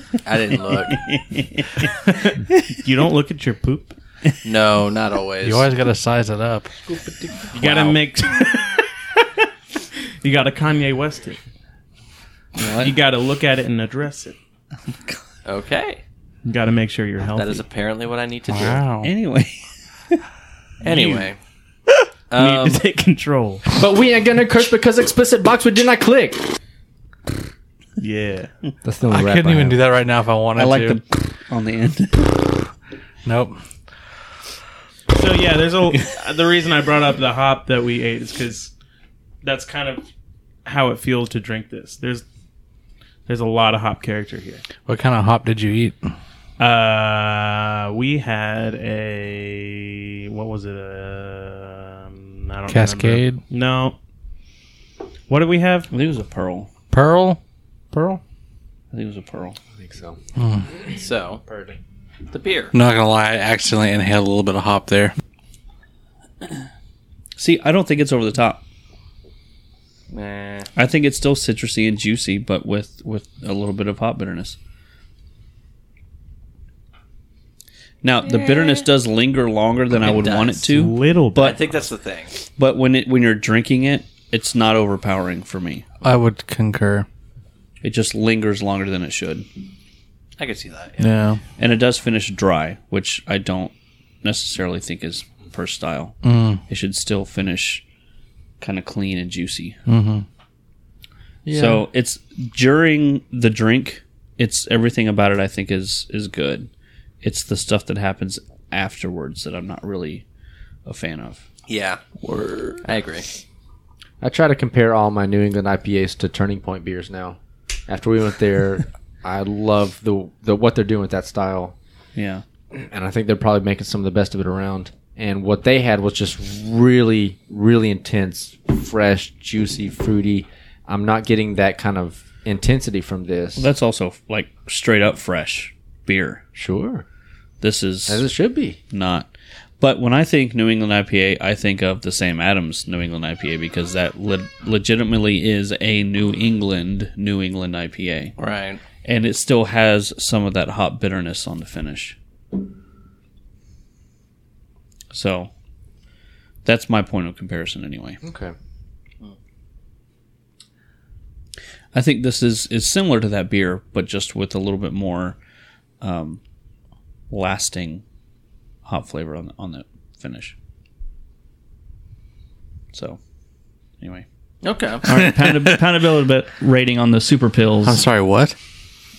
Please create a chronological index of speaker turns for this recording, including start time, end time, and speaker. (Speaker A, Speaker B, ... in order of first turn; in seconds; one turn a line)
Speaker A: 0.2-1.0
Speaker B: 0.7-2.0
Speaker C: 2.0-4.0
Speaker A: 4.4-5.7
Speaker D: 5.4-6.7
Speaker C: 7.5-8.9
Speaker A: 7.6-8.0
Speaker C: 10.2-11.4
Speaker C: 12.7-14.4
Speaker A: 15.4-16.0
Speaker C: 16.4-17.6
Speaker A: 17.4-18.9
Speaker D: 18.5-19.1
Speaker B: 19.0-20.2
Speaker A: 20.8-21.4
Speaker C: 20.8-21.2
Speaker A: 22.3-22.8
Speaker C: 22.4-23.7
Speaker E: 23.7-26.5
Speaker C: 28.0-28.5
Speaker E: 28.8-29.8
Speaker D: 29.1-31.0
Speaker B: 30.6-32.7
Speaker D: 33.2-33.6
Speaker C: 35.1-38.7
Speaker C: 39.4-40.1
Speaker C: 40.6-42.2
Speaker C: 43.3-44.6
Speaker D: 44.9-46.1
Speaker C: 46.6-54.0
Speaker D: 52.7-53.4
Speaker C: 55.3-55.9
Speaker B: 55.9-56.7
Speaker D: 56.9-57.4
Speaker C: 57.9-58.2
Speaker B: 58.9-59.6
Speaker E: 59.8-60.2
Speaker D: 60.4-60.7
Speaker A: 61.0-61.4
Speaker E: 61.5-61.8
Speaker A: 62.3-62.8
Speaker D: 62.7-65.2
Speaker B: 67.4-68.6
Speaker A: 70.1-70.7
Speaker B: 70.8-74.6
Speaker B: 78.0-81.6
Speaker A: 78.3-78.8
Speaker A: 80.0-80.7
Speaker C: 80.7-81.6
Speaker A: 81.4-82.3
Speaker B: 82.6-85.9
Speaker D: 86.0-87.1
Speaker B: 87.8-89.5
Speaker A: 90.4-91.1
Speaker D: 91.0-91.4
Speaker B: 91.6-96.2
Speaker D: 96.2-96.6
Speaker B: 96.7-97.8
Speaker B: 98.6-99.8
Speaker D: 99.9-100.2
Speaker E: 101.5-101.8
Speaker B: 101.5-106.7
Speaker B: 107.2-110.2
Speaker B: 110.9-111.4
Speaker A: 111.7-112.0
Speaker B: 112.2-112.8
Speaker A: 112.8-113.3
Speaker E: 114.2-121.8
Speaker B: 122.2-122.4
Speaker E: 122.7-133.7
Speaker B: 133.6-136.4
Speaker E: 136.6-137.1
Speaker B: 137.6-138.3
Speaker E: 138.1-138.8
Speaker B: 138.9-139.3
Speaker B: 139.8-148.3
Speaker A: 148.4-148.8
Speaker B: 149.0-152.2
Speaker B: 155.1-155.5
Speaker B: 156.7-158.2
Speaker E: 158.2-158.6
Speaker B: 161.9-165.4
Speaker B: 166.0-166.4
Speaker B: 167.3-168.0
Speaker B: 168.9-170.5
Speaker B: 172.9-173.2
Speaker A: 174.6-175.1
Speaker B: 175.0-178.1
Speaker D: 177.8-178.6